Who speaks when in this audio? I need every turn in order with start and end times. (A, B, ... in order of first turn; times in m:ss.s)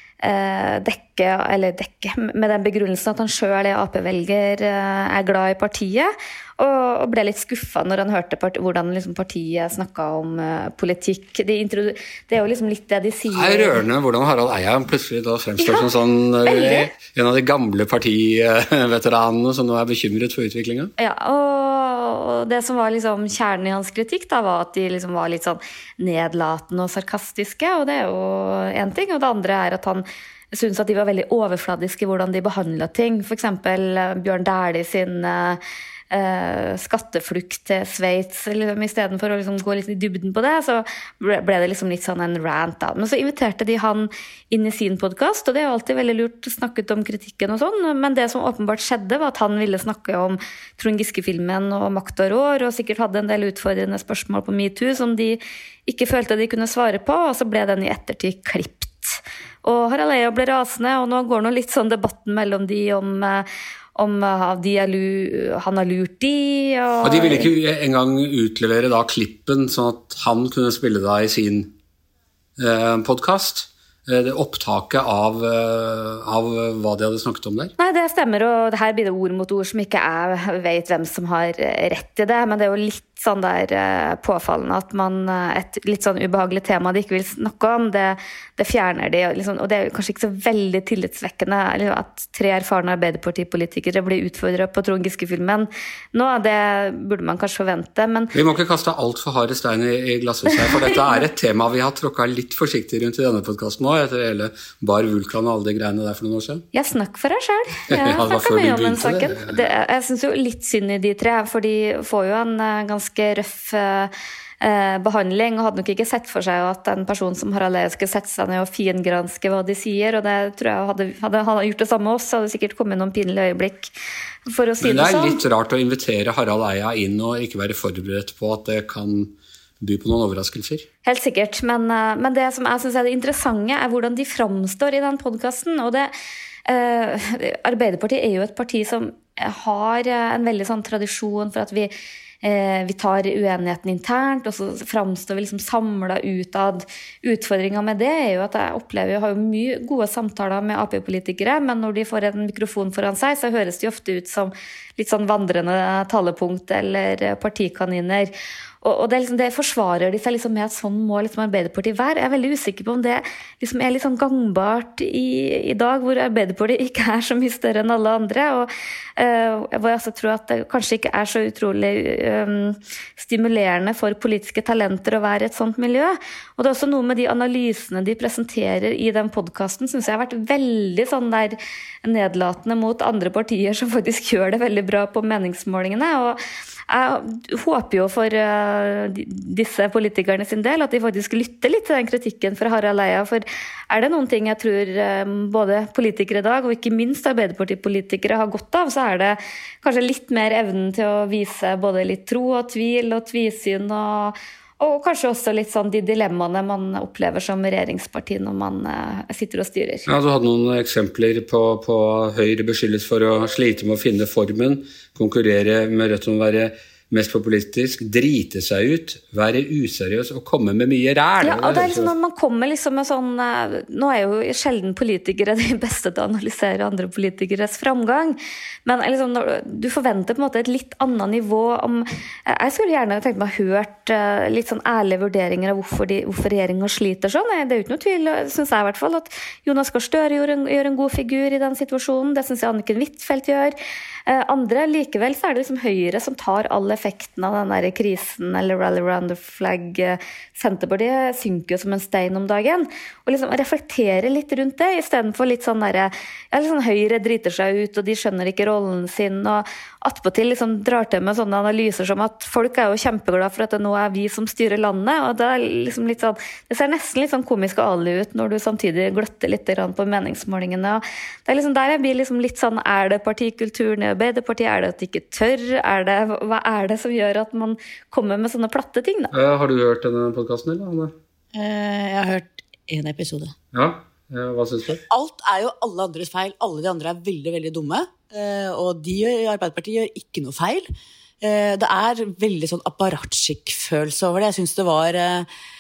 0:00.2-0:13.8 A
0:13.3-0:20.9 B
0:15.6-0:15.9 A
0:16.4-0:16.8 A
0:21.0-1:07.5 A
1:07.0-1:11.7 B
1:12.6-1:17.7 B
1:17.8-1:38.3 A
1:38.3-1:46.6 B
1:46.7-2:03.9 A
1:47.9-1:49.6 B
2:04.5-2:05.4 A
2:04.8-2:10.9 B
2:11.0-2:16.1 A
2:16.7-2:21.9 A
2:22.4-3:30.0 A
3:30.1-3:42.1 B
3:41.4-4:03.8 A
4:04.3-4:39.3 A
4:39.3-4:41.1 B
4:41.5-4:43.5 C
4:43.7-4:45.0 B
4:45.1-4:50.9 C
4:51.4-4:55.5 C